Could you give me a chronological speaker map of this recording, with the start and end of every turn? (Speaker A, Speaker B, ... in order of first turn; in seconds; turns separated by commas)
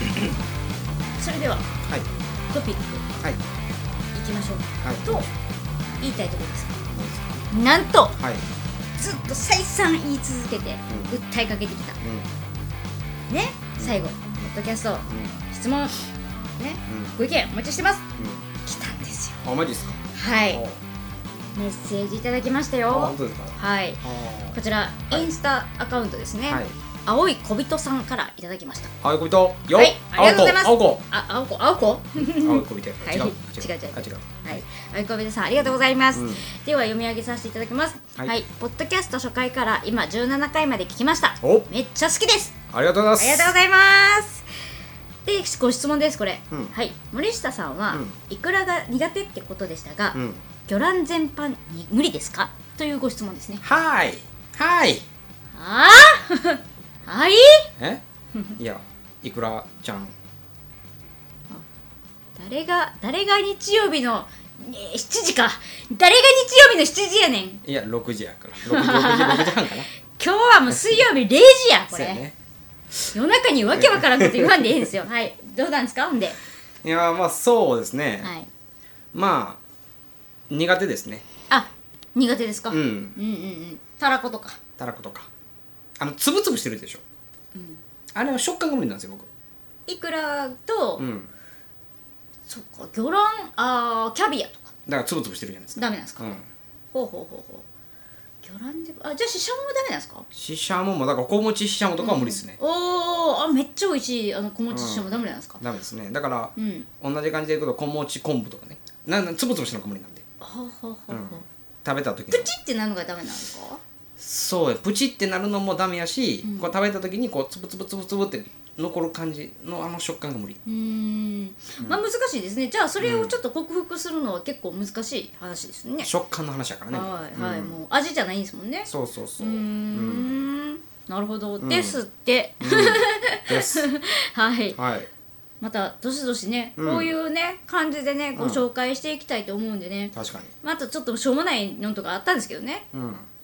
Speaker A: 1.2-1.7, Speaker A: 2.5-3.0, Speaker A: 4.1-5.3, Speaker B: 4.8-5.3, Speaker A: 6.0-6.8, Speaker B: 6.9-7.4, Speaker A: 7.5-8.2, Speaker B: 8.2-8.4, Speaker A: 9.0-12.0, Speaker B: 10.9-11.2, Speaker B: 12.0-12.3, Speaker A: 13.3-18.1, Speaker B: 15.1-15.4, Speaker B: 16.9-17.2, Speaker B: 18.2-18.5, Speaker A: 18.6-19.4, Speaker B: 19.4-20.0, Speaker A: 20.1-20.6, Speaker B: 20.5-20.8, Speaker A: 21.6-28.9, Speaker B: 22.9-25.3, Speaker B: 26.5-26.7, Speaker B: 29.0-31.1, Speaker A: 29.7-42.6, Speaker B: 32.2-34.6, Speaker B: 36.1-36.5, Speaker B: 41.4-41.7, Speaker B: 42.7-43.6, Speaker A: 43.2-44.5, Speaker A: 45.2-53.6, Speaker B: 47.9-48.2, Speaker B: 50.1-50.5, Speaker B: 53.6-55.0, Speaker A: 55.5-57.7, Speaker B: 58.6-60.1, Speaker A: 62.4-67.6, Speaker B: 67.6-69.9, Speaker A: 68.7-72.2, Speaker B: 71.9-72.3, Speaker A: 73.1-76.4, Speaker B: 73.7-74.9, Speaker B: 76.8-78.3, Speaker A: 78.2-78.5, Speaker B: 79.1-79.6, Speaker B: 80.5-81.3, Speaker A: 81.5-84.6, Speaker B: 82.7-83.2, Speaker B: 84.8-85.3, Speaker B: 86.0-87.0, Speaker A: 87.5-87.8, Speaker B: 88.1-89.3, Speaker A: 89.9-91.0, Speaker B: 91.0-91.3, Speaker A: 92.5-94.7, Speaker B: 94.9-96.5, Speaker A: 95.8-96.3, Speaker A: 96.9-97.7, Speaker A: 98.4-100.3, Speaker B: 100.3-102.6, Speaker A: 102.0-105.6, Speaker B: 104.7-110.2, Speaker A: 106.6-106.9, Speaker A: 110.4-111.4, Speaker B: 111.1-112.5, Speaker A: 112.3-113.8, Speaker B: 114.2-120.6, Speaker A: 116.4-116.7, Speaker A: 120.7-126.1, Speaker B: 123.0-123.4, Speaker B: 126.0-127.8, Speaker A: 126.9-134.8, Speaker B: 128.9-130.5, Speaker B: 131.6-132.0, Speaker B: 132.6-133.9, Speaker B: 134.7-135.1, Speaker A: 135.6-142.9, Speaker B: 136.8-137.1, Speaker B: 138.4-138.7, Speaker B: 140.2-140.5, Speaker B: 142.9-143.3